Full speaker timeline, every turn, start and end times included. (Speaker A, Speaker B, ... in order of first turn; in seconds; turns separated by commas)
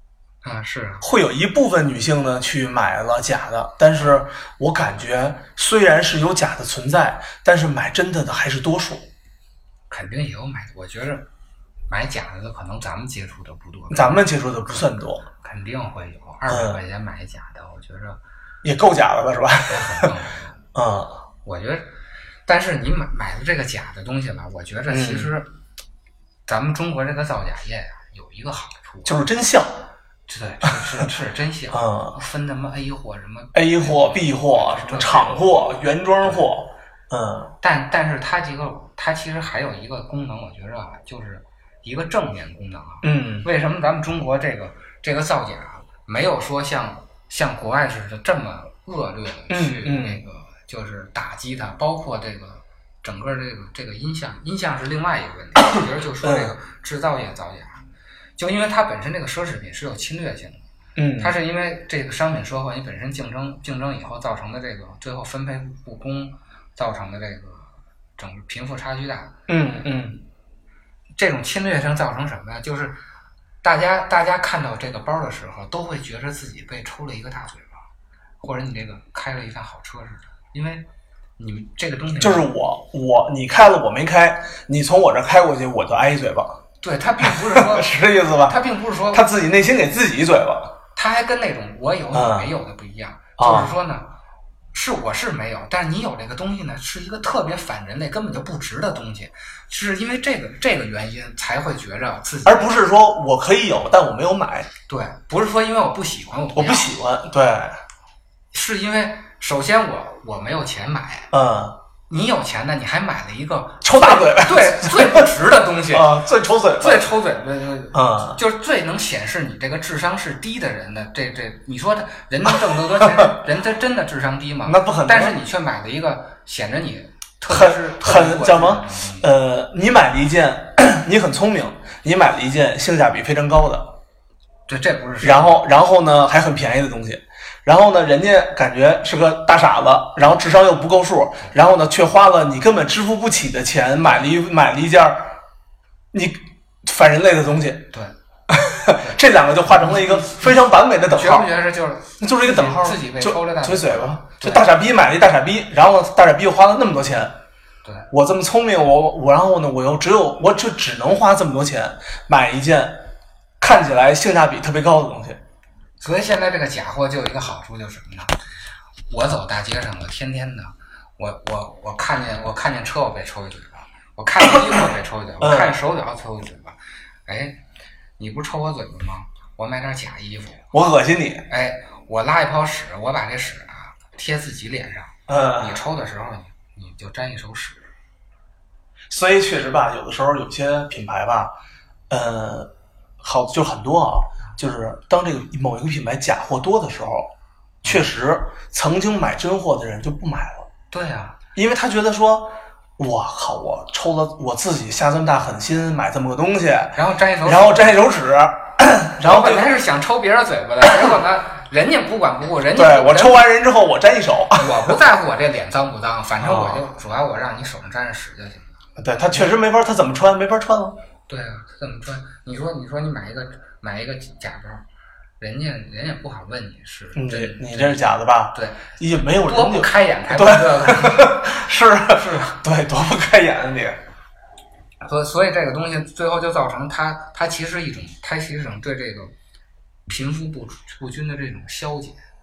Speaker A: 0.4-1.1, Speaker B: 1.0-9.1, Speaker A: 9.9-11.3, Speaker A: 11.9-14.8, Speaker B: 13.9-15.2, Speaker A: 15.4-18.2, Speaker B: 16.5-16.8, Speaker B: 18.6-20.1, Speaker A: 19.7-20.6, Speaker B: 20.8-21.2, Speaker A: 21.4-21.9, Speaker A: 22.4-25.5, Speaker B: 24.9-25.3, Speaker A: 26.5-29.1, Speaker B: 29.0-29.9, Speaker A: 30.3-35.6, Speaker B: 31.7-32.2, Speaker B: 33.5-37.5, Speaker A: 37.6-57.8, Speaker B: 43.0-43.5, Speaker B: 49.5-50.2, Speaker B: 56.2-56.5, Speaker A: 58.4-60.6, Speaker B: 61.0-61.4, Speaker A: 61.2-69.3, Speaker B: 69.5-70.2, Speaker A: 71.2-73.0, Speaker A: 73.6-77.8, Speaker A: 78.4-80.9, Speaker A: 81.4-82.5, Speaker B: 82.2-86.6, Speaker A: 86.8-89.2, Speaker B: 87.2-90.8, Speaker A: 91.0-94.2, Speaker B: 92.1-92.5, Speaker B: 93.4-93.7, Speaker A: 94.7-102.7, Speaker B: 102.4-104.7, Speaker A: 104.9-107.0, Speaker B: 106.5-107.8, Speaker A: 108.5-111.3, Speaker B: 111.3-111.8, Speaker A: 112.1-116.1, Speaker B: 113.8-115.3, Speaker B: 115.9-117.1, Speaker A: 116.8-129.3, Speaker B: 117.9-118.4, Speaker B: 122.5-123.4, Speaker B: 124.6-125.4, Speaker B: 127.5-134.0, Speaker A: 134.7-135.6, Speaker B: 135.2-145.4, Speaker B: 146.1-147.9, Speaker B: 148.5-151.5, Speaker A: 149.0-154.7, Speaker B: 152.2-157.4, Speaker B: 158.1-165.4, Speaker A: 166.0-168.4, Speaker A: 169.1-177.6, Speaker B: 175.4-175.8, Speaker A: 178.2-180.7, Speaker B: 180.7-181.5, Speaker A: 181.5-187.9, Speaker B: 185.3-185.8, Speaker B: 189.1-191.6, Speaker B: 192.1-200.7, Speaker A: 200.9-201.4, Speaker B: 201.6-209.7, Speaker A: 206.9-208.0, Speaker A: 209.2-213.4, Speaker B: 212.7-215.0, Speaker A: 214.6-218.8, Speaker B: 216.4-216.8, Speaker B: 219.0-221.0, Speaker A: 221.3-224.8, Speaker A: 225.4-231.5, Speaker B: 227.1-234.0, Speaker A: 232.1-232.6, Speaker A: 235.0-239.3, Speaker A: 240.1-242.2